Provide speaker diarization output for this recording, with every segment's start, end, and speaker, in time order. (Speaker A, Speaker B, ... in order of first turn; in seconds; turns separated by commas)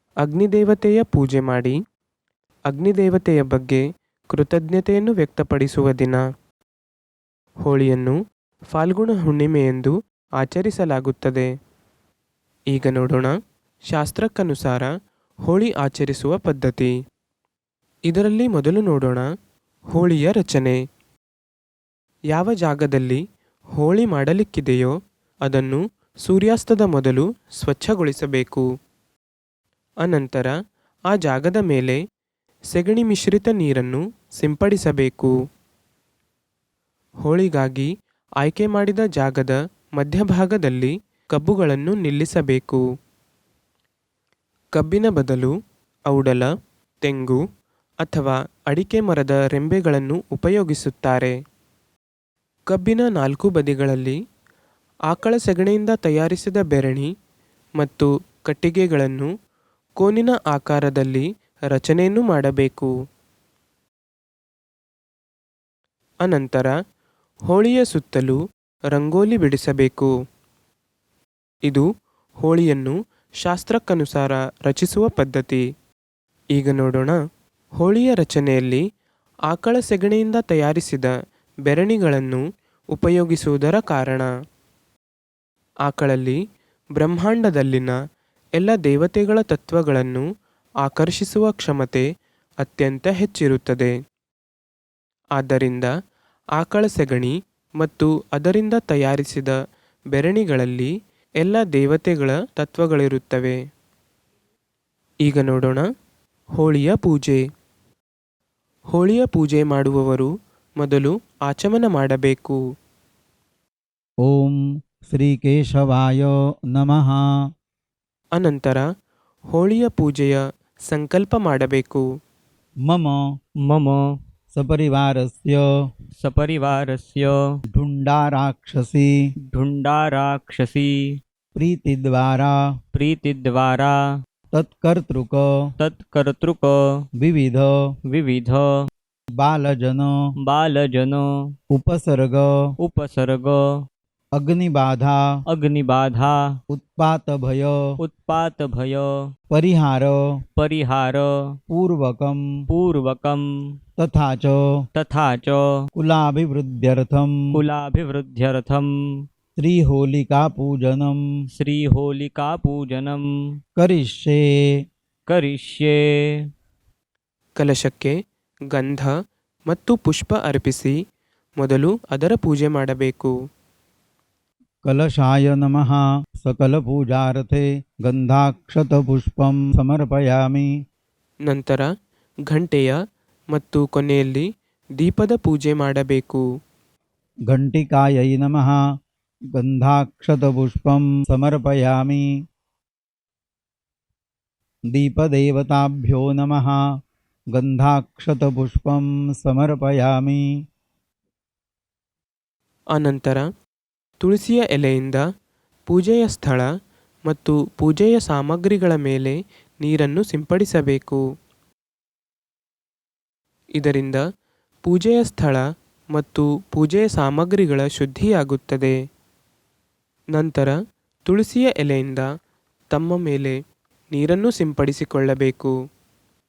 Speaker A: 0.2-1.8, Speaker A: 2.7-6.2, Speaker A: 7.6-8.2, Speaker A: 8.7-11.5, Speaker A: 12.7-13.3, Speaker A: 13.9-14.9, Speaker A: 15.4-16.9, Speaker A: 18.1-19.2, Speaker A: 19.9-20.8, Speaker A: 22.3-23.2, Speaker A: 23.8-24.9, Speaker A: 25.4-28.6, Speaker A: 30.0-30.5, Speaker A: 31.1-32.0, Speaker A: 32.7-35.3, Speaker A: 37.2-42.8, Speaker A: 44.7-45.5, Speaker A: 46.1-46.5, Speaker A: 47.0-47.4, Speaker A: 48.0-51.3, Speaker A: 52.7-54.1, Speaker A: 55.1-57.1, Speaker A: 57.8-59.3, Speaker A: 60.0-62.9, Speaker A: 66.2-66.7, Speaker A: 67.5-68.4, Speaker A: 68.9-70.1, Speaker A: 72.4-75.6, Speaker A: 76.5-77.2, Speaker A: 77.8-78.8, Speaker A: 79.5-81.1, Speaker A: 81.7-82.4, Speaker A: 82.9-84.3, Speaker A: 85.8-86.4, Speaker A: 87.0-88.0, Speaker A: 88.6-90.2, Speaker A: 90.8-92.0, Speaker A: 92.6-93.9, Speaker A: 95.4-95.9, Speaker A: 96.6-99.5, Speaker A: 100.1-103.6, Speaker A: 105.2-105.8, Speaker A: 106.6-107.4, Speaker A: 108.9-112.6, Speaker B: 114.2-117.2, Speaker A: 118.3-118.9, Speaker A: 119.5-122.0, Speaker B: 122.8-123.2, Speaker C: 123.6-124.1, Speaker B: 124.5-125.6, Speaker C: 126.2-127.3, Speaker B: 127.7-129.1, Speaker C: 129.5-131.2, Speaker B: 131.5-132.5, Speaker C: 132.9-134.0, Speaker B: 134.5-135.4, Speaker C: 135.8-137.1, Speaker B: 137.2-137.7, Speaker C: 138.1-138.7, Speaker B: 139.4-140.1, Speaker C: 140.4-141.5, Speaker B: 141.7-142.5, Speaker C: 142.8-143.8, Speaker B: 144.3-145.2, Speaker C: 145.5-146.6, Speaker B: 146.7-147.7, Speaker C: 148.0-149.1, Speaker B: 149.5-150.1, Speaker C: 150.6-151.6, Speaker B: 151.7-152.4, Speaker C: 152.7-153.8, Speaker B: 154.0-154.6, Speaker C: 154.9-155.9, Speaker B: 155.9-157.3, Speaker C: 157.5-159.2, Speaker B: 159.6-161.2, Speaker C: 161.6-163.6, Speaker B: 163.8-164.4, Speaker C: 165.3-166.4, Speaker A: 167.6-168.1, Speaker A: 168.7-169.1, Speaker A: 169.7-171.0, Speaker A: 171.6-173.3, Speaker B: 174.8-180.7, Speaker A: 181.4-181.9, Speaker A: 182.5-183.0, Speaker A: 183.5-184.5, Speaker A: 185.0-186.4, Speaker B: 187.5-188.8, Speaker B: 189.6-192.2, Speaker B: 194.9-196.8, Speaker B: 197.5-200.4, Speaker A: 202.9-203.4, Speaker A: 204.2-205.2, Speaker A: 205.9-206.7, Speaker A: 207.3-211.2, Speaker A: 213.8-214.2, Speaker A: 214.8-215.6, Speaker A: 216.1-218.9, Speaker A: 220.3-220.7, Speaker A: 221.2-222.2, Speaker A: 222.9-223.6, Speaker A: 224.1-225.7